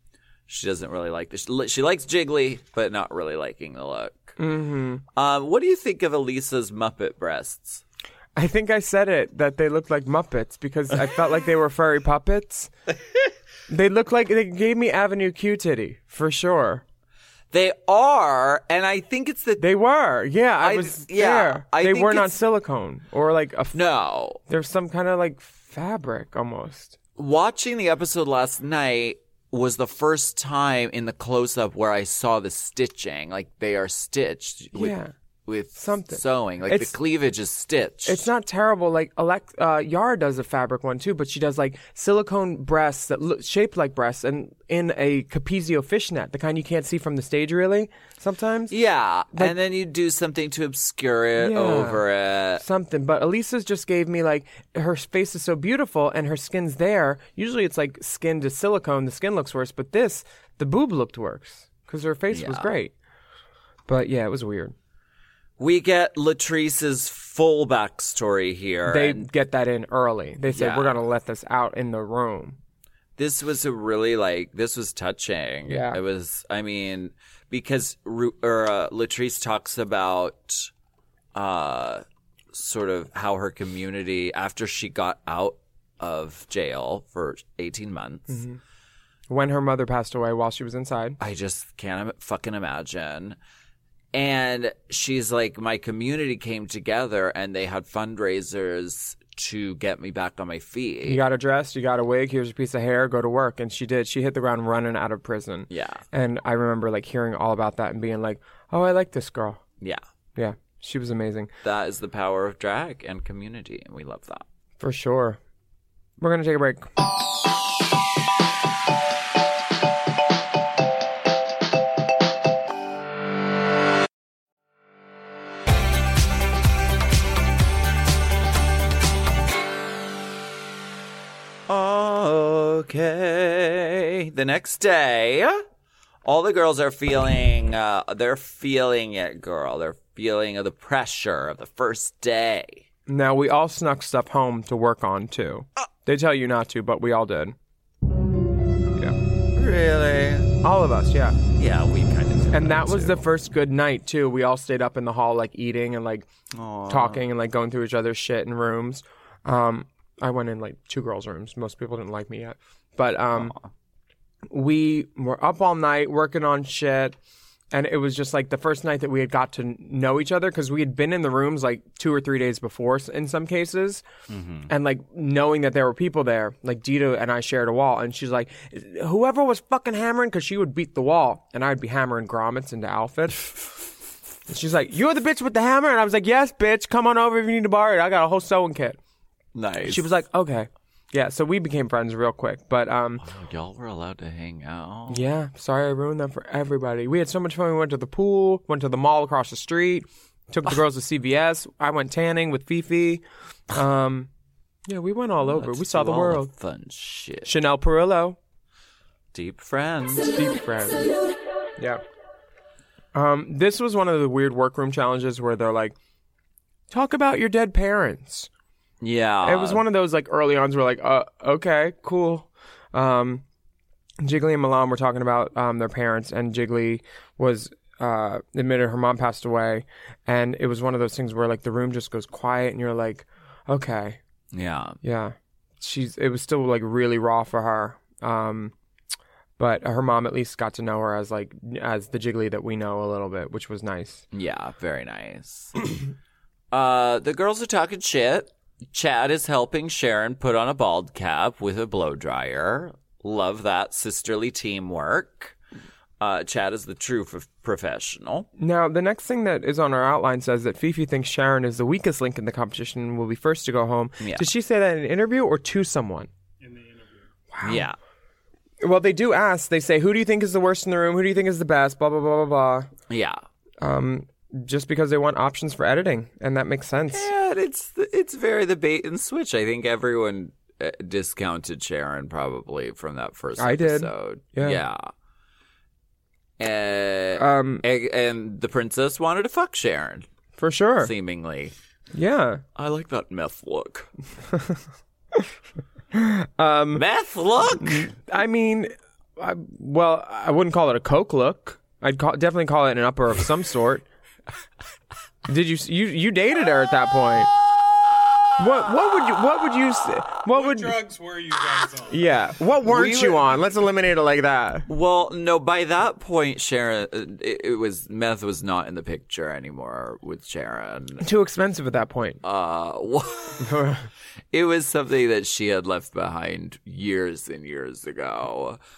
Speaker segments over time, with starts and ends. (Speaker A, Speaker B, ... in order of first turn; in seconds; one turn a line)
Speaker A: 0.5-4.4
Speaker B: 4.4-5.0
Speaker A: 5.2-7.8
Speaker B: 8.4-12.7
Speaker B: 13.7-16.8
Speaker A: 17.5-19.6
Speaker B: 19.6-23.8
Speaker A: 20.6-22.4
Speaker A: 23.7-24.4
Speaker B: 24.5-27.0
Speaker A: 27.2-35.0
Speaker B: 34.7-35.1
Speaker A: 35.5-38.3
Speaker B: 35.8-36.9
Speaker B: 38.1-48.7
Speaker A: 48.7-52.6
Speaker B: 51.4-52.0
Speaker B: 52.6-62.9
Speaker A: 62.3-62.7
Speaker B: 63.9-64.7
Speaker A: 65.6-69.3
Speaker B: 68.9-72.6
Speaker A: 70.5-71.0
Speaker A: 73.2-80.7
Speaker B: 75.7-76.0
Speaker A: 81.3-88.4
Speaker B: 88.3-88.6
Speaker B: 89.3-91.2
Speaker A: 91.2-93.4
Speaker A: 94.1-101.2
Speaker B: 101.0-109.6
Speaker A: 105.7-106.0
Speaker B: 110.4-111.5
Speaker A: 111.6-114.5
Speaker B: 114.8-115.4
Speaker B: 116.2-116.9
Speaker A: 131.7-135.6
Speaker A: 136.2-142.8
Speaker B: 143.1-147.6
Speaker A: 149.6-150.5
Speaker B: 150.6-151.4
Speaker A: 151.6-153.2
Speaker B: 152.5-156.3
Speaker A: 156.5-157.2
Speaker B: 156.9-163.6
Speaker A: 163.4-163.7
Speaker B: 164.5-167.2
Speaker B: 167.7-174.0
Speaker A: 174.3-174.7
Speaker B: 174.7-183.5
Speaker B: 184.5-189.0
Speaker A: 189.6-190.1
Speaker B: 189.8-193.2
Speaker A: 193.2-195.2
Speaker B: 195.1-204.3
Speaker B: 204.9-206.5
Speaker A: 205.4-207.5
Speaker B: 207.4-208.4
Speaker A: 209.3-210.4
Speaker B: 210.3-211.1
Speaker B: 213.1-215.9
Speaker B: 216.9-218.5
Speaker A: 219.0-219.8
Speaker B: 219.4-223.4
Speaker B: 224.2-234.2
Speaker A: 234.5-235.0
Speaker B: 235.0-238.7
Speaker B: 239.6-244.2
Speaker A: 244.3-245.8
Speaker A: 246.7-255.6
Speaker A: 256.2-258.5
Speaker B: 258.6-266.3
Speaker A: 264.2-264.5
Speaker C: 266.6-267.3
Speaker B: 267.5-267.9
Speaker A: 267.6-268.0
Speaker B: 268.8-272.9
Speaker A: 273.1-273.4
Speaker B: 273.8-277.3
Speaker A: 277.1-285.1
Speaker B: 283.6-284.8
Speaker A: 286.6-290.3
Speaker B: 287.4-287.8
Speaker B: 290.6-291.1
Speaker A: 291.0-291.7
Speaker B: 292.1-292.6
Speaker A: 292.8-294.1
Speaker B: 294.5-294.8
Speaker B: 296.1-297.0
Speaker A: 296.9-298.1
Speaker B: 297.8-304.1
Speaker B: 305.5-307.5
Speaker B: 308.6-311.0
Speaker C: 310.5-312.3
Speaker B: 312.1-314.9
Speaker A: 312.9-313.4
Speaker A: 314.9-321.2
Speaker B: 321.2-322.4
Speaker A: 322.4-323.9
Speaker B: 323.6-324.1
Speaker A: 324.5-328.8